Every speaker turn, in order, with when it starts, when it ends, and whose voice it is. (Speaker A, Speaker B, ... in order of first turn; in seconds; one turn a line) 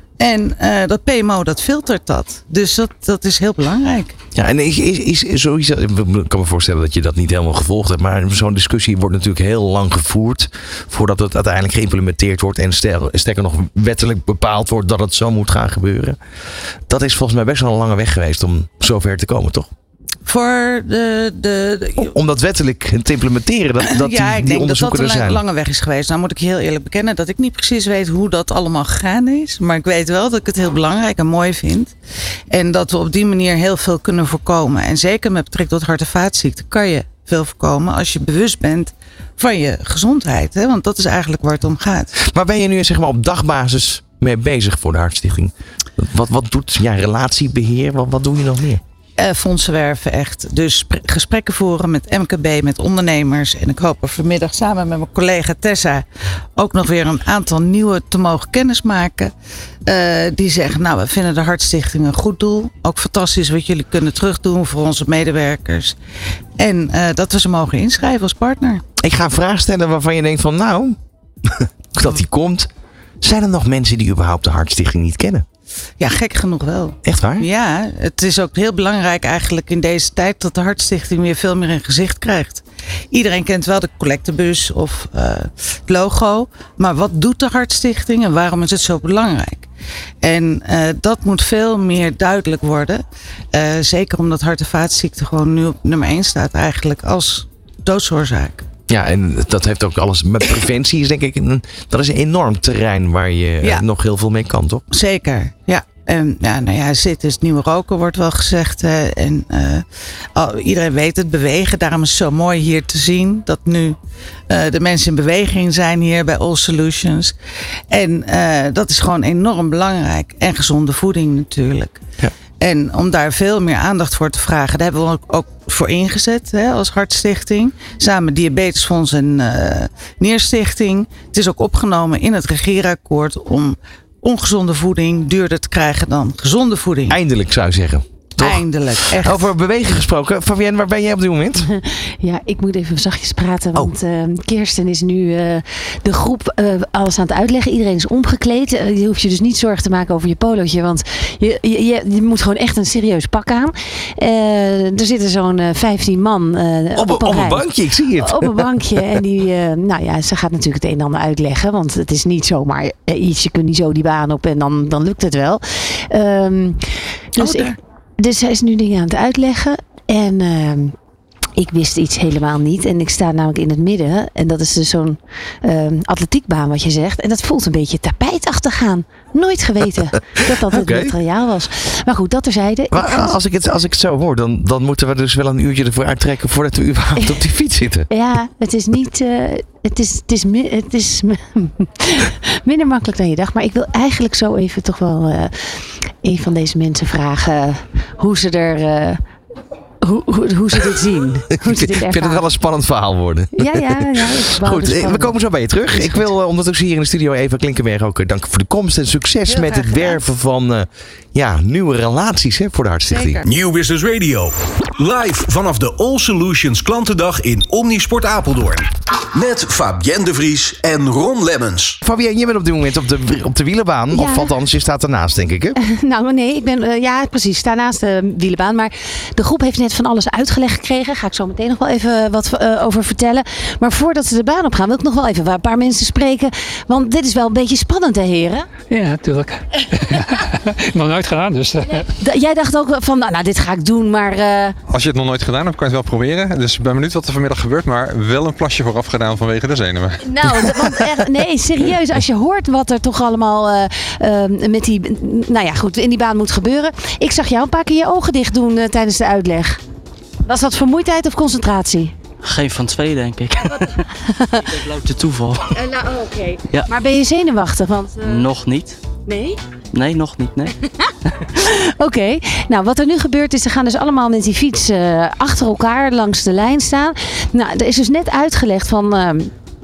Speaker A: 0.2-4.2
Speaker B: 4.3-16.2
Speaker B: 16.9-19.7
Speaker A: 20.2-22.1
Speaker B: 22.0-25.4
Speaker A: 23.8-31.9
Speaker A: 32.5-42.1
Speaker B: 42.2-48.8
Speaker A: 49.2-56.0
Speaker A: 56.5-59.3
Speaker A: 59.9-66.0
Speaker A: 66.6-68.8
Speaker B: 69.0-72.7
Speaker B: 73.2-75.5
Speaker A: 76.0-89.7
Speaker B: 77.0-77.5
Speaker A: 90.2-98.7
Speaker B: 98.9-104.8
Speaker A: 104.9-109.8
Speaker A: 110.3-114.0
Speaker A: 114.5-117.3
Speaker A: 117.9-122.0
Speaker A: 122.6-137.2
Speaker B: 137.1-141.7
Speaker A: 138.4-139.5
Speaker C: 141.6-166.8
Speaker B: 156.9-159.1
Speaker C: 167.3-170.9
Speaker A: 167.4-167.8
Speaker C: 171.6-183.3
Speaker B: 180.7-181.1
Speaker B: 182.9-188.1
Speaker C: 188.1-195.7
Speaker C: 196.2-199.2
Speaker C: 200.0-202.4
Speaker B: 201.7-213.4
Speaker C: 203.5-205.4
Speaker C: 206.0-206.2
Speaker C: 209.5-210.2
Speaker C: 213.1-213.4
Speaker D: 213.4-222.0
Speaker B: 222.0-225.8
Speaker C: 224.1-224.5
Speaker C: 225.8-238.7
Speaker E: 238.9-242.1
Speaker C: 242.2-244.8
Speaker F: 244.9-251.0
Speaker C: 250.2-259.8
Speaker C: 260.4-262.1
Speaker G: 262.4-264.0
Speaker C: 264.2-264.6
Speaker G: 264.9-265.8
Speaker C: 265.8-268.2
Speaker G: 268.2-269.0
Speaker C: 269.2-269.6
Speaker G: 269.9-270.7
Speaker C: 271.5-279.5